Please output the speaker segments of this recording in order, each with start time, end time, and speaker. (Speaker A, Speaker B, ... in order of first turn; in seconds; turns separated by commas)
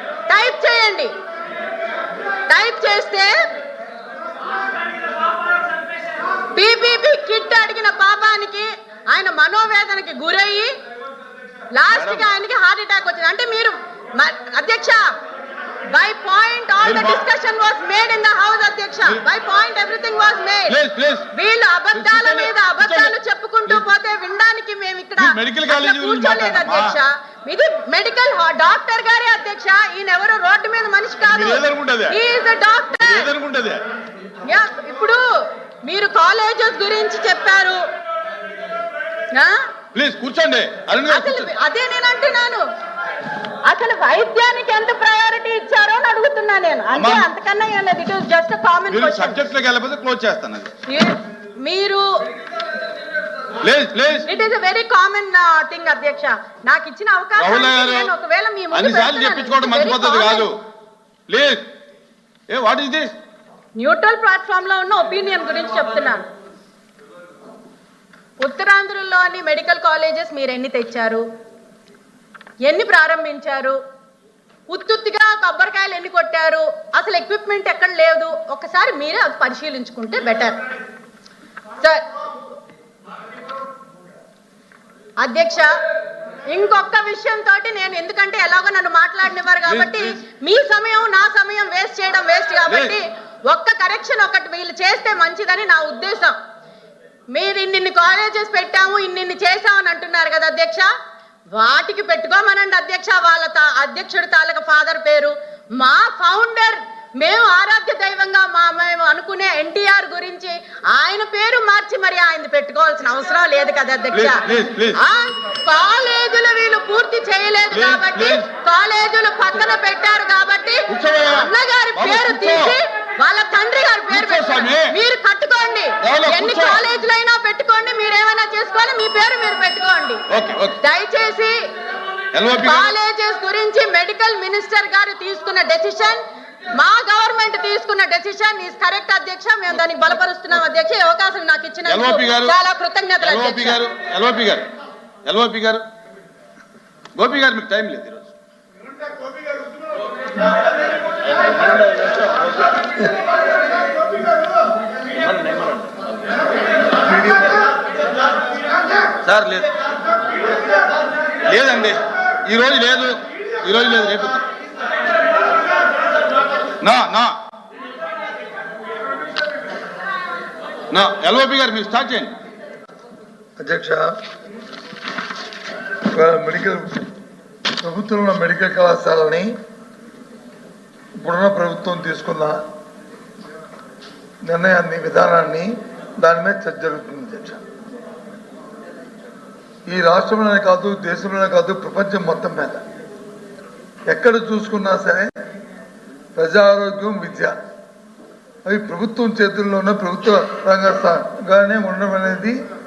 Speaker A: 0.3-1.1, Speaker A: 2.5-3.4, Speaker A: 6.5-10.7, Speaker A: 11.7-15.1, Speaker B: 11.9-12.3, Speaker A: 15.9-20.8, Speaker B: 16.8-17.2, Speaker B: 20.7-21.3, Speaker A: 21.3-33.3, Speaker B: 21.9-23.1, Speaker B: 25.2-27.0, Speaker B: 31.3-32.2, Speaker B: 33.0-33.8, Speaker A: 34.5-35.2, Speaker A: 35.9-37.8, Speaker A: 39.3-39.6, Speaker B: 39.9-41.5, Speaker A: 41.1-42.6, Speaker A: 43.7-49.4, Speaker B: 46.9-47.3, Speaker B: 48.9-50.7, Speaker A: 50.9-52.0, Speaker B: 53.6-54.3, Speaker A: 54.2-60.5, Speaker B: 57.4-58.1, Speaker B: 58.7-60.6, Speaker B: 61.3-61.7, Speaker B: 62.5-63.1, Speaker A: 63.8-66.2, Speaker A: 68.4-71.2, Speaker A: 72.6-73.8, Speaker A: 74.7-80.6, Speaker A: 81.8-82.0, Speaker A: 85.2-85.7, Speaker A: 86.5-96.4, Speaker B: 89.7-90.2, Speaker B: 92.7-93.0, Speaker A: 97.3-100.9, Speaker A: 101.5-114.4, Speaker B: 114.1-115.0, Speaker A: 115.0-130.2, Speaker B: 117.7-118.5, Speaker B: 120.9-122.8, Speaker B: 124.1-124.9, Speaker B: 126.0-126.8, Speaker B: 130.3-130.8, Speaker A: 130.8-131.6, Speaker B: 132.3-132.9, Speaker A: 132.5-143.8, Speaker B: 139.8-140.1, Speaker B: 141.9-142.6, Speaker B: 143.2-144.7, Speaker B: 145.2-145.8, Speaker B: 147.2-148.3, Speaker B: 151.3-152.7, Speaker B: 155.2-156.1, Speaker B: 159.2-159.7, Speaker B: 161.4-164.4, Speaker B: 166.8-167.4, Speaker B: 170.9-172.3, Speaker C: 173.6-174.1, Speaker C: 176.1-177.1, Speaker C: 177.8-179.6, Speaker C: 181.2-182.7, Speaker C: 184.4-187.6, Speaker C: 189.9-192.8, Speaker C: 194.1-195.3, Speaker C: 196.4-197.6, Speaker C: 198.7-202.6